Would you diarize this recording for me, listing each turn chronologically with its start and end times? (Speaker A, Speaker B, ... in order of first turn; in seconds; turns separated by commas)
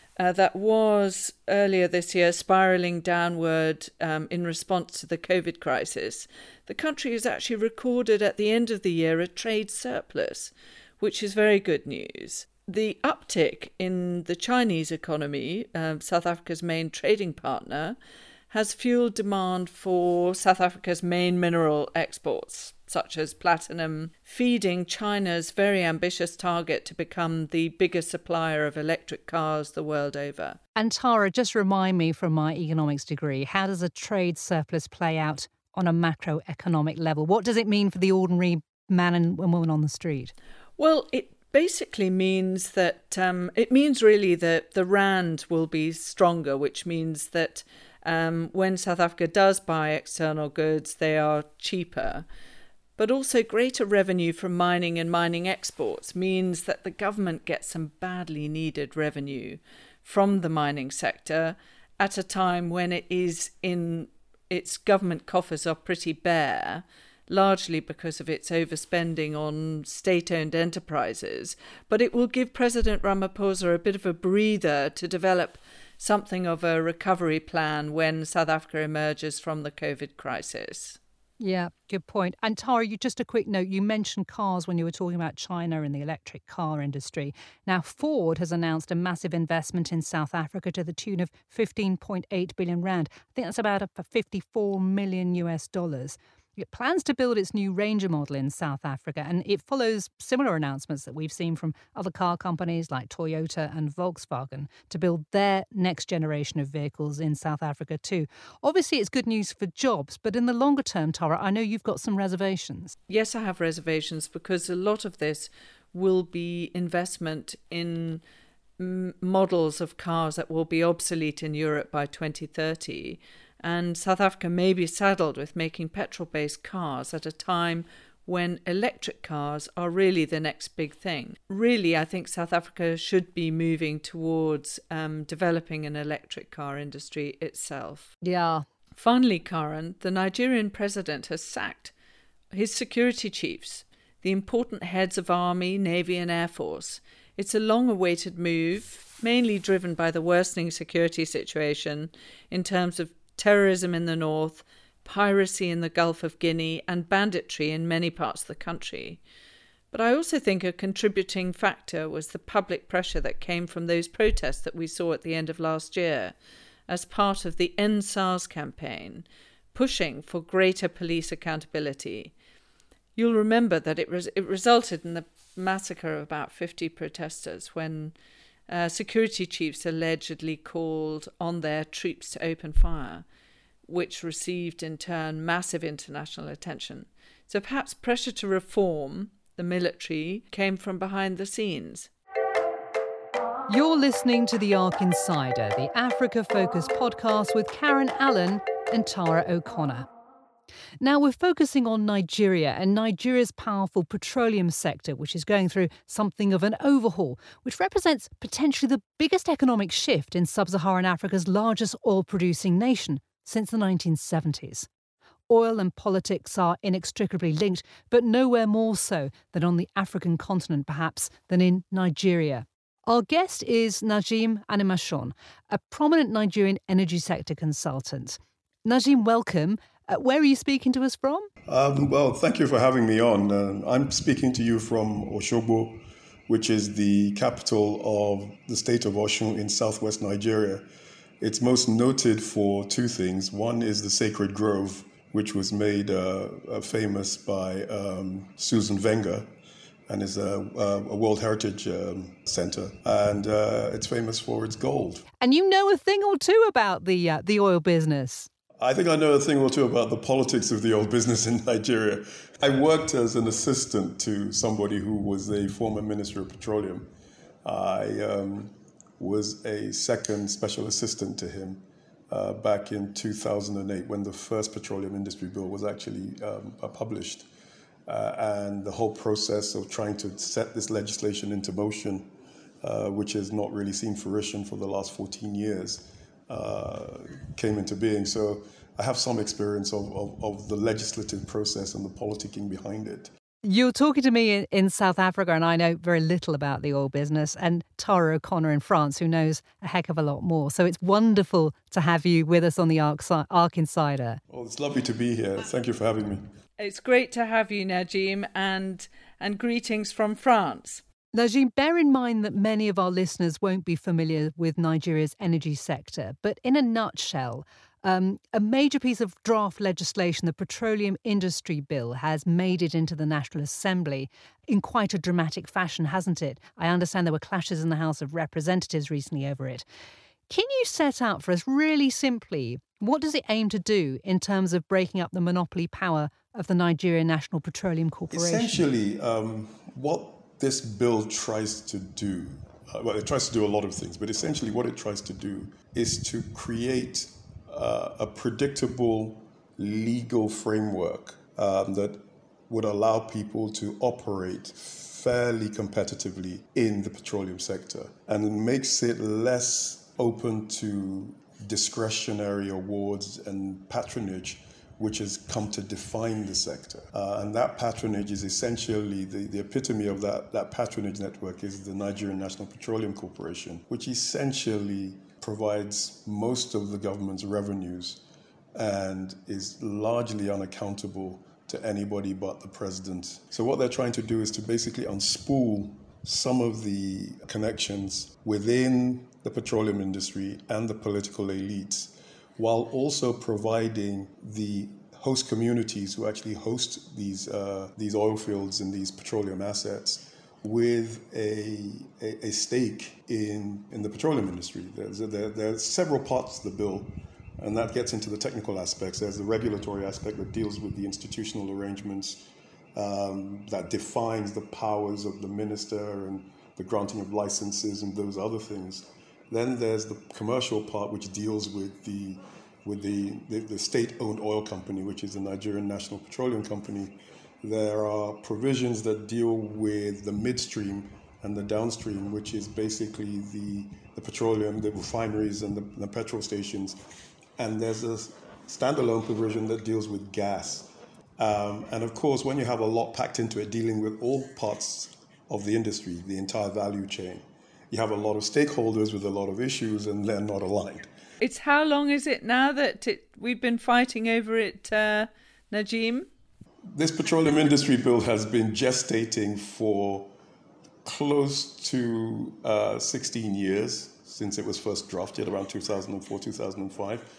Speaker A: 0.2-18.0, Speaker A: 18.5-30.6, Speaker B: 30.8-40.3, Speaker A: 40.8-52.2, Speaker A: 53.0-81.0, Speaker B: 81.4-113.0, Speaker A: 113.1-118.2, Speaker A: 118.8-138.1, Speaker B: 138.2-138.6, Speaker A: 139.0-141.9, Speaker A: 142.5-159.2, Speaker A: 159.9-166.3, Speaker A: 166.9-172.3, Speaker A: 173.2-178.1, Speaker A: 178.7-183.2, Speaker A: 183.9-192.1, Speaker B: 193.7-200.1, Speaker B: 201.0-214.9, Speaker B: 215.5-231.5, Speaker C: 231.7-240.9, Speaker C: 241.4-249.5, Speaker C: 250.1-255.2, Speaker B: 255.4-258.5, Speaker C: 258.8-267.1, Speaker C: 267.6-277.5, Speaker C: 278.1-282.3, Speaker C: 282.8-293.3, Speaker B: 293.6-304.4, Speaker C: 304.5-306.4, Speaker A: 306.8-311.0, Speaker B: 311.3-329.9, Speaker B: 330.5-338.8, Speaker C: 338.3-378.2, Speaker C: 378.8-437.0, Speaker C: 437.6-451.1, Speaker A: 451.4-456.3, Speaker C: 456.9-460.3, Speaker C: 461.1-467.2